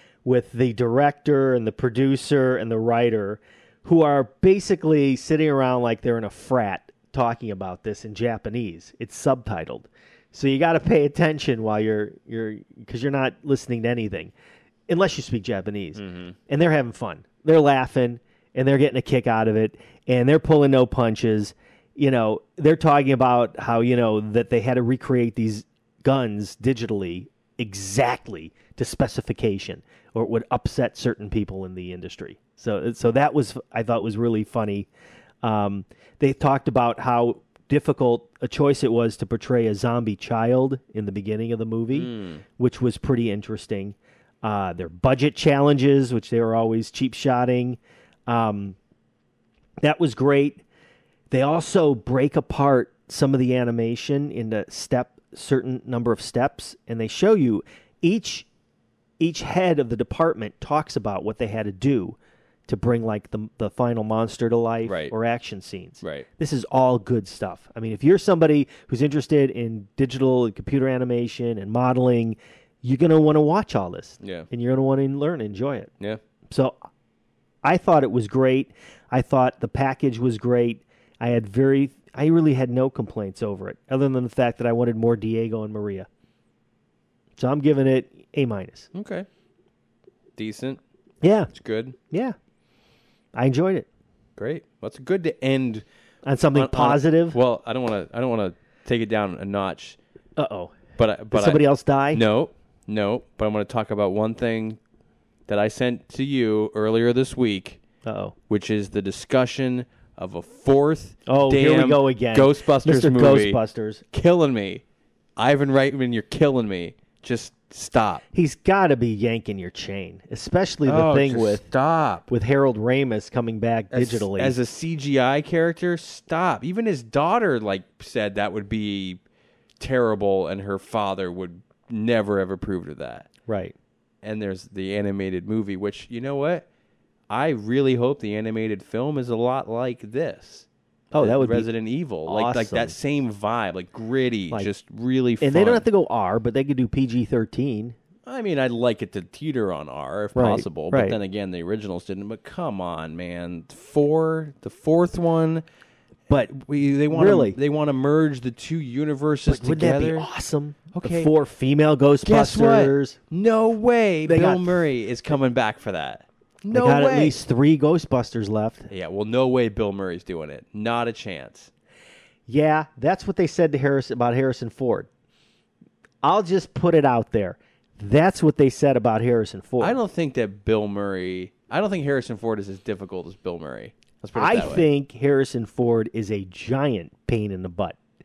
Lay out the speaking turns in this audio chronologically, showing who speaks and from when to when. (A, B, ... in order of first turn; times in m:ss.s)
0:00.2-0:14.3 A
0:14.9-0:34.9 A
0:16.0-0:16.4 B
0:35.4-0:48.8 A
0:41.9-0:42.4 B
0:49.8-0:50.6 A
0:51.3-0:58.5 A
0:59.2-1:15.9 A
1:04.8-1:05.1 B
1:06.0-1:06.3 B
1:14.2-1:14.5 B
1:16.5-1:16.8 A
1:17.6-1:26.1 A
1:27.4-1:28.9 A
1:28.9-1:29.3 B
1:30.4-1:30.8 B
1:31.2-1:31.5 A
1:31.5-1:32.0 B
1:32.1-1:32.4 A
1:33.4-1:33.9 A
1:34.4-1:35.8 B
1:36.2-1:37.4 A
1:36.5-1:40.0 B
1:40.4-1:40.8 A
1:41.0-1:44.8 B
1:41.3-1:42.2 A
1:45.5-1:47.8 B
1:48.0-1:48.4 A
1:48.5-1:53.6 B
1:51.3-1:54.0 A
1:54.1-1:54.8 B
1:55.4-1:58.2 B
1:58.3-2:01.7 A
2:00.8-2:02.3 B
2:02.3-2:04.6 A
2:03.9-2:09.2 B
2:09.8-2:13.3 B
2:13.5-2:13.8 A
2:14.2-2:16.7 B
2:17.3-2:25.9 B
2:21.1-2:21.7 A
2:22.3-2:22.9 A
2:25.4-2:28.0 A
2:28.3-2:35.6 B
2:30.4-2:31.2 A
2:36.5-2:40.3 B
2:37.1-2:37.6 A
2:39.5-2:43.2 A
2:40.9-2:41.3 B
2:42.2-2:47.4 B
2:44.3-2:44.9 A
2:46.7-2:48.9 A
2:48.9-2:51.7 B
2:52.5-2:55.1 A
2:56.2-3:00.0 A
2:59.8-3:04.9 B
3:04.4-3:08.0 A